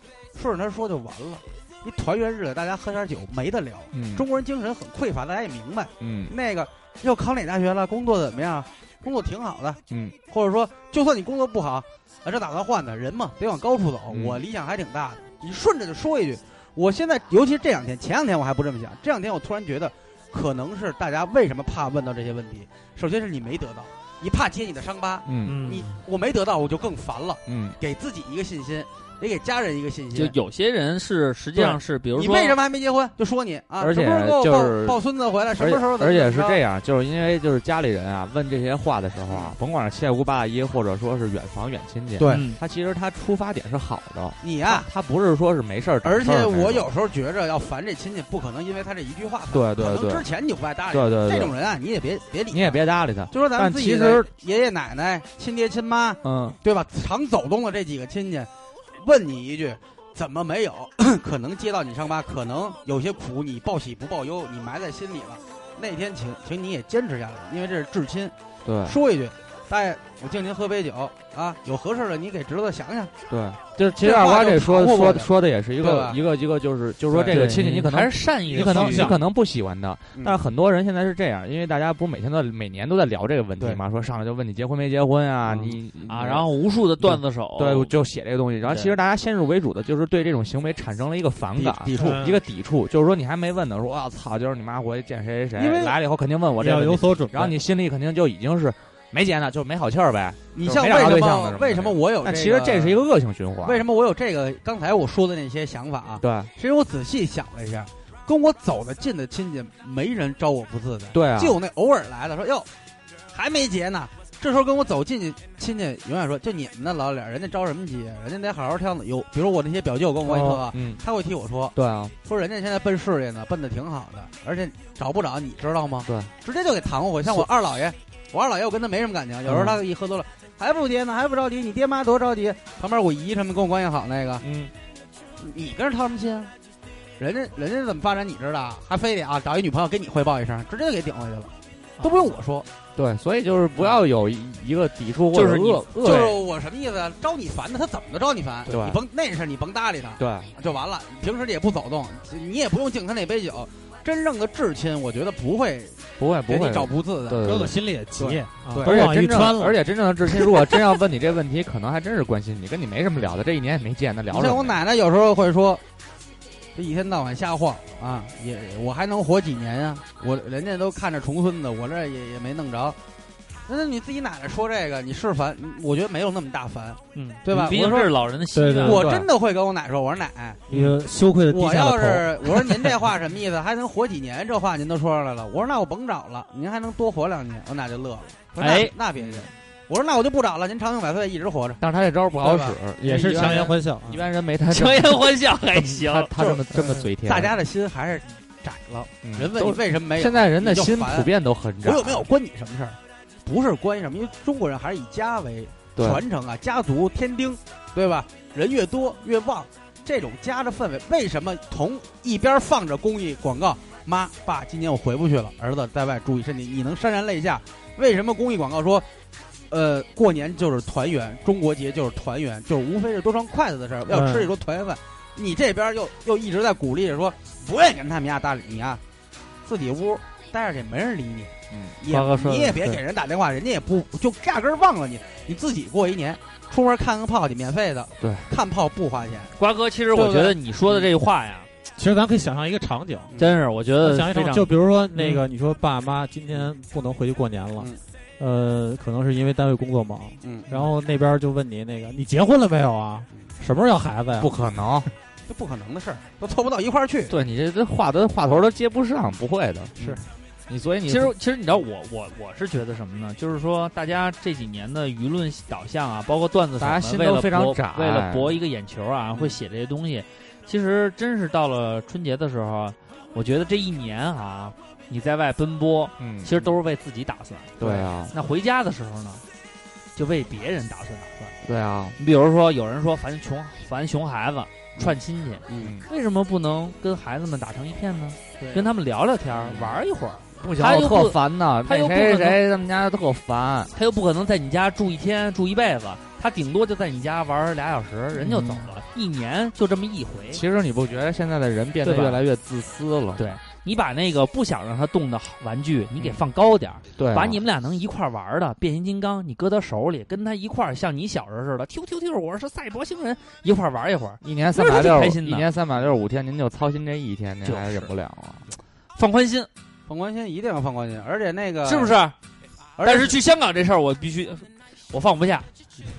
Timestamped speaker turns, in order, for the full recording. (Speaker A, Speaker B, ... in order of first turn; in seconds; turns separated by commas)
Speaker A: 0.3-30.4, Speaker B: 3.9-4.3, Speaker B: 6.0-6.3, Speaker B: 9.9-10.2, Speaker B: 14.1-14.4, Speaker B: 25.3-25.6, Speaker C: 25.4-25.9, Speaker B: 27.5-27.8, Speaker C: 30.1-32.6, Speaker A: 31.6-36.6, Speaker B: 33.8-35.0, Speaker B: 35.6-46.9, Speaker A: 39.3-39.5, Speaker A: 42.2-42.5, Speaker C: 42.2-42.6, Speaker A: 44.4-44.9, Speaker A: 46.0-58.5, Speaker B: 49.5-50.3, Speaker B: 50.9-51.5, Speaker B: 52.5-54.3, Speaker B: 56.2-56.6, Speaker A: 59.0-68.3, Speaker B: 68.7-69.0, Speaker A: 68.8-73.1, Speaker B: 73.3-86.4, Speaker A: 74.0-75.3, Speaker A: 75.8-76.2, Speaker A: 77.1-77.5, Speaker C: 77.3-79.1, Speaker D: 78.5-79.2, Speaker C: 86.1-87.9, Speaker B: 87.0-103.8, Speaker C: 88.7-88.9, Speaker A: 91.6-92.2, Speaker D: 92.0-92.4, Speaker A: 95.6-96.0, Speaker D: 96.6-97.6, Speaker A: 100.5-103.0, Speaker A: 103.6-112.7, Speaker B: 106.2-106.5, Speaker B: 111.1-111.6, Speaker A: 113.3-134.4, Speaker B: 120.2-121.0, Speaker B: 121.8-122.1, Speaker B: 126.1-126.3, Speaker B: 129.5-129.8, Speaker B: 134.4-134.7, Speaker A: 135.4-136.5, Speaker A: 137.2-142.7, Speaker C: 142.0-142.3, Speaker B: 143.0-146.4, Speaker C: 145.3-146.4, Speaker A: 146.0-159.0, Speaker B: 148.7-149.0, Speaker B: 150.2-150.6, Speaker B: 156.2-157.8, Speaker D: 157.4-159.8, Speaker B: 158.8-164.8, Speaker A: 164.3-165.8, Speaker A: 166.8-173.0, Speaker A: 173.7-178.2, Speaker C: 177.1-179.1, Speaker D: 178.5-179.1, Speaker A: 178.8-180.7, Speaker B: 178.8-179.3, Speaker D: 180.7-182.6, Speaker A: 181.5-191.8, Speaker C: 188.6-188.9, Speaker B: 189.2-189.5, Speaker B: 191.8-197.6, Speaker A: 192.4-193.7, Speaker D: 193.0-194.2, Speaker C: 194.7-196.3, Speaker A: 197.2-201.3, Speaker B: 199.2-202.3, Speaker A: 201.8-219.1, Speaker B: 206.0-206.2, Speaker A: 219.7-229.0, Speaker D: 224.1-224.5, Speaker A: 229.7-239.5, Speaker B: 231.7-232.0, Speaker C: 232.1-233.0, Speaker B: 238.2-238.5, Speaker C: 239.6-241.7, Speaker A: 240.1-241.1, Speaker D: 242.0-243.3, Speaker A: 243.3-243.6, Speaker C: 243.4-244.7, Speaker D: 244.0-254.6, Speaker A: 250.4-250.9, Speaker B: 254.4-255.1, Speaker A: 255.5-257.3, Speaker B: 257.3-260.1, Speaker B: 260.7-261.3, Speaker C: 261.1-277.8, Speaker B: 266.8-268.6, Speaker B: 276.2-276.6, Speaker B: 277.8-278.3, Speaker A: 277.8-278.1, Speaker C: 278.3-279.4, Speaker C: 280.2-281.5, Speaker B: 281.6-282.2, Speaker C: 282.2-292.6, Speaker B: 285.7-286.1, Speaker B: 289.5-290.0, Speaker B: 290.7-293.9, Speaker C: 293.9-300.6, Speaker B: 298.4-298.9, Speaker B: 300.5-303.4, Speaker C: 302.0-302.4, Speaker C: 303.4-315.7, Speaker B: 307.2-307.6, Speaker B: 314.4-318.6, Speaker C: 317.6-318.1, Speaker C: 319.2-319.7, Speaker A: 320.1-322.2, Speaker C: 321.8-322.4, Speaker A: 323.0-323.4, Speaker C: 323.0-325.7